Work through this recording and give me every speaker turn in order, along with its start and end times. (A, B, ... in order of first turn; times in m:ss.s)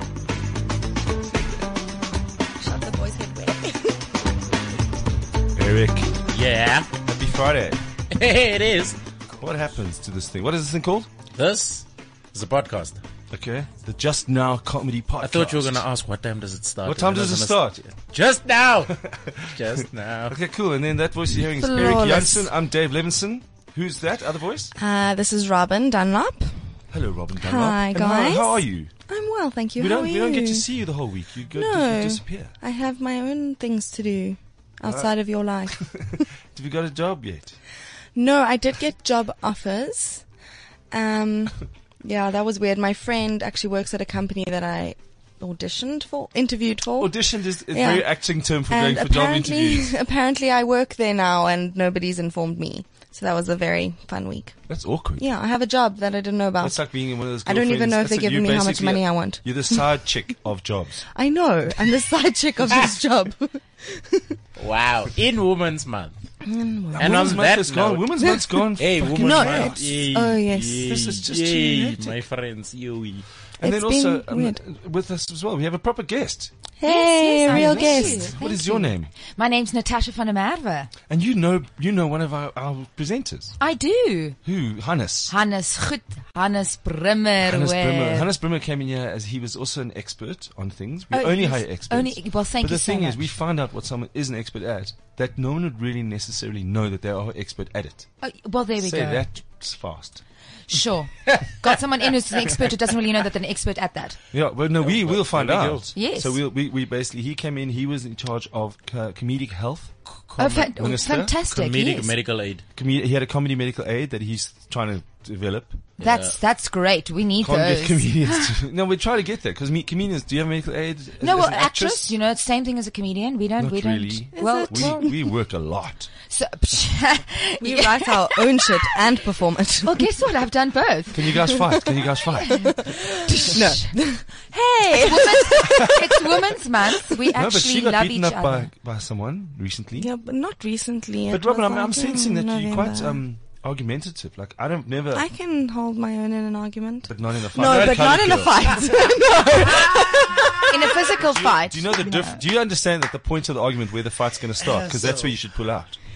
0:02.6-0:04.0 A
0:05.5-0:06.1 B
0:06.3-0:06.9 C
0:07.0-0:07.8 B
0:08.1-0:09.0 C
0:09.3-0:11.1 B
0:11.3-0:13.0 C
0:13.3-0:15.8 B
0:15.2-0:20.4 C
0:16.8-0:17.8 B
0:19.0-0:24.7 B
0:21.5-0:22.5 A
0:24.8-0:26.6 A
0:26.9-0:28.9 B
0:27.4-0:30.6 A
0:29.8-0:32.5 B
0:31.5-0:36.2 A
0:35.7-0:37.6 B
0:38.1-0:40.2 A
0:40.9-0:47.1 A
0:47.0-0:49.9 B
0:47.7-0:48.0 A
0:48.7-0:54.6 A
0:54.7-0:55.2 B
0:55.2-0:56.8 A
0:56.6-1:01.0 B
0:57.4-0:59.8 A
1:01.1-1:04.4 A
1:04.6-1:06.2 C
1:06.4-1:07.4 A
1:06.9-1:10.0 B
1:07.0-1:08.2 C
1:08.8-1:13.3 C
1:09.1-1:10.9 A
1:10.8-1:12.2 B
1:13.6-1:14.6 A
1:13.6-1:16.5 B
1:16.8-1:18.4 A
1:16.8-1:20.9 D
1:17.5-1:19.1 B
1:21.1-1:23.6 B
1:23.6-1:24.4 D
1:24.4-1:25.3 B
1:25.3-1:28.3 D
1:27.4-1:38.1 B
1:31.1-1:33.3 D
1:38.2-1:39.3 D
1:38.8-1:40.2 B
1:40.7-1:44.2 D
1:44.3-1:49.9 B
1:44.8-1:45.9 C
1:45.9-1:46.4 D
1:50.1-1:50.7 C
1:50.4-1:52.1 D
1:50.8-1:51.3 B
1:51.5-1:52.6 C
1:52.8-1:55.8 B
1:56.0-1:56.4 C
1:56.0-1:58.5 D
1:57.4-2:02.1 B
2:01.2-2:05.1 D
2:03.6-2:06.1 B
2:04.4-2:05.1 A
2:06.3-2:09.0 D
2:07.6-2:10.0 A
2:09.8-2:11.5 D
2:11.1-2:12.7 B
2:12.4-2:13.9 D
2:13.2-2:16.0 A
2:15.0-2:18.7 D
2:17.3-2:20.1 B
2:20.0-2:23.2 A
2:21.3-2:25.2 B
2:25.1-2:30.6 A
2:27.1-2:28.8 B
2:27.6-2:30.5 C
2:30.7-2:32.4 D
2:31.2-2:36.0 B
2:34.6-2:35.3 C